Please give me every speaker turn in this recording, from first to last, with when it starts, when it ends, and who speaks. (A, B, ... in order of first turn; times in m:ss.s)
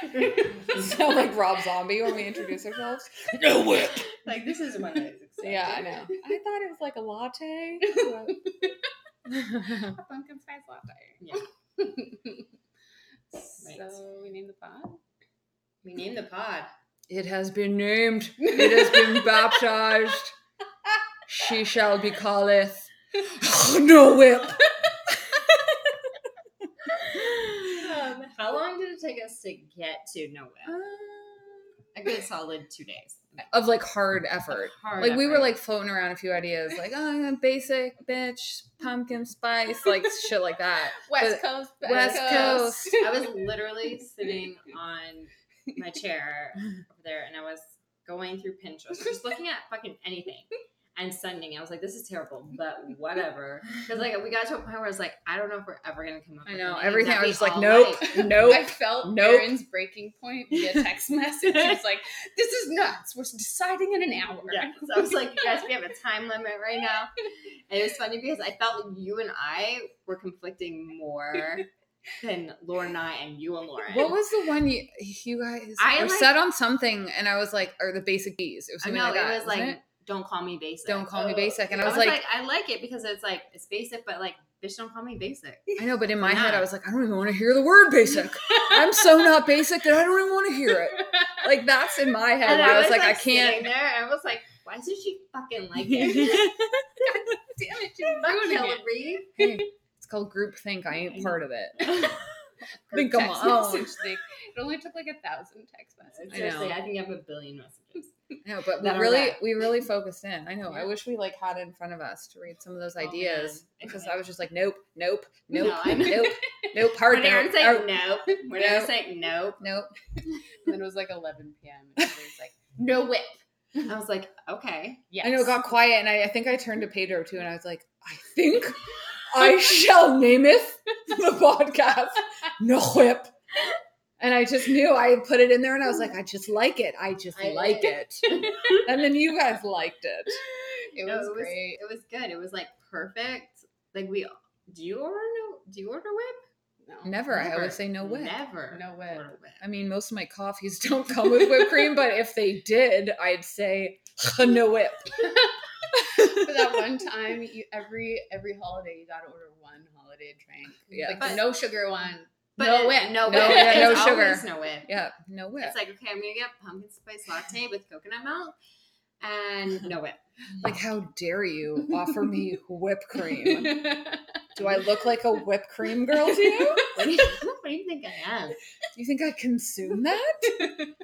0:00.2-0:00.4 A
0:00.4-0:04.0 B
0:03.7-0:06.0 C
0:05.4-0:08.4 B
0:07.8-0:08.7 A
0:09.3-0:10.0 B
0:09.6-0:11.2 A
0:11.2-0:11.4 C
0:11.8-0:12.5 A
0:13.3-0:15.0 A
0:13.6-0:14.0 C
0:15.8-0:16.7 C
0:17.1-0:20.3 B
0:18.5-0:19.3 A
0:21.3-0:25.9 B
0:27.0-0:30.8 C
0:27.3-0:27.6 B
0:30.7-0:31.7 B
0:31.9-0:33.5 C
0:33.5-0:42.9 B
0:34.5-0:35.6 C
0:41.0-0:43.3 A
0:41.9-0:58.3 C
0:56.4-0:59.6 B
0:58.1-1:05.4 A
1:00.6-1:00.9 B
1:04.4-1:07.1 C
1:07.7-1:14.2 C
1:13.9-1:19.8 B
1:15.8-1:16.4 C
1:18.8-1:26.7 C
1:20.8-1:22.2 B
1:21.3-1:21.8 A
1:25.8-1:33.7 B
1:28.5-1:29.2 A
1:31.0-1:31.4 A
1:32.4-1:36.7 C
1:35.9-1:36.6 B
1:37.0-1:38.9 A
1:38.2-1:39.4 C
1:39.4-1:42.2 B
1:41.8-1:42.3 C
1:42.9-1:43.5 C
1:42.9-1:43.9 B
1:43.1-1:46.6 A
1:46.1-1:48.1 C
1:46.3-1:46.8 B
1:48.4-1:57.9 B
1:48.8-1:49.4 C
1:53.0-1:54.2 C
1:55.5-1:56.4 C
1:56.9-1:59.6 C
1:58.5-1:59.0 B
1:59.6-1:59.9 B
2:00.6-2:03.4 A
2:03.8-2:05.1 C
2:05.1-2:05.6 A
2:05.2-2:13.3 B
2:14.2-2:20.4 B
2:17.3-2:18.7 C
2:20.6-2:21.8 A
2:21.0-2:26.4 C
2:26.8-2:27.5 A
2:27.0-2:28.4 B
2:27.3-2:29.6 C
2:28.7-2:29.3 A
2:29.6-2:35.1 B
2:35.9-2:44.1 A
2:36.2-2:36.8 B
2:40.9-2:41.5 B
2:41.2-2:41.4 C
2:42.6-2:44.9 C
2:43.2-2:45.8 B
2:45.6-2:48.5 C
2:49.2-2:50.6 C
2:50.6-2:53.9 B
2:53.3-2:54.2 A
2:54.6-2:56.8 B
2:56.2-2:57.0 A
2:56.9-2:58.6 C
2:58.9-3:00.7 B
3:00.5-3:00.8 A